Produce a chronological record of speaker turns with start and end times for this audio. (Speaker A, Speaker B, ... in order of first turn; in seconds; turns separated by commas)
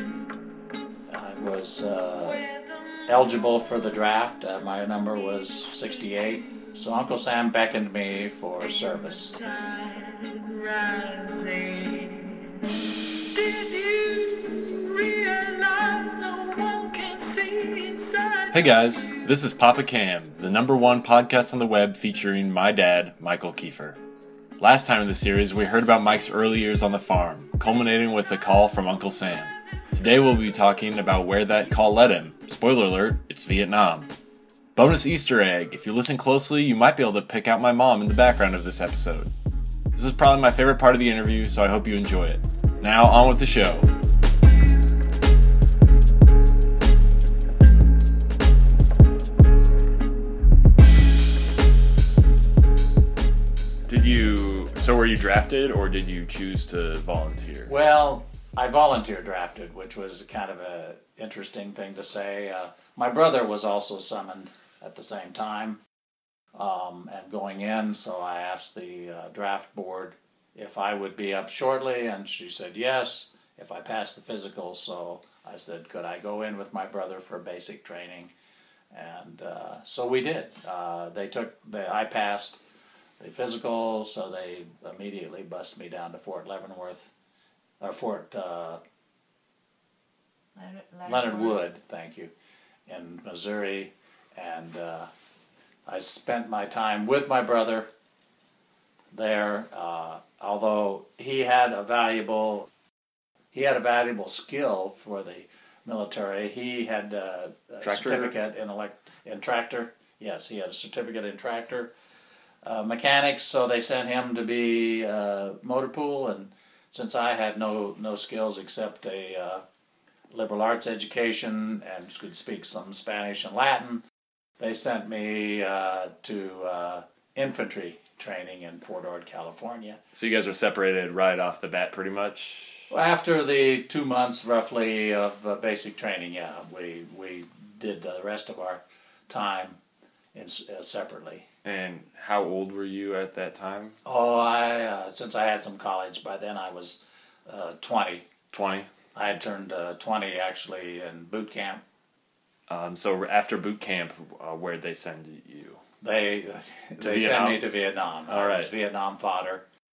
Speaker A: 1.1-2.5, Speaker B: 2.4-3.1, Speaker A: 3.1-9.4, Speaker B: 9.4-12.5, Speaker B: 13.3-18.6, Speaker C: 18.5-24.0, Speaker C: 24.6-34.1, Speaker C: 34.8-39.3, Speaker C: 39.9-43.9, Speaker C: 53.9-57.7, Speaker A: 57.6-65.8, Speaker A: 66.5-78.3, Speaker A: 78.9-82.6, Speaker A: 83.2-87.1, Speaker A: 87.8-88.8, Speaker B: 90.6-91.5, Speaker A: 91.0-92.3, Speaker A: 92.9-95.1, Speaker A: 95.8-97.9, Speaker A: 99.1-102.7, Speaker A: 103.5-111.9, Speaker C: 107.8-108.3, Speaker A: 112.6-119.6, Speaker A: 120.3-124.0, Speaker A: 124.6-130.0, Speaker C: 130.1-132.9, Speaker A: 132.9-139.8, Speaker A: 140.3-141.4, Speaker C: 141.6-144.0, Speaker A: 144.0-148.3, Speaker C: 148.5-148.9, Speaker A: 149.1-151.8, Speaker C: 152.7-155.8, Speaker A: 156.0-159.6, Speaker C: 157.0-157.7, Speaker C: 158.3-158.7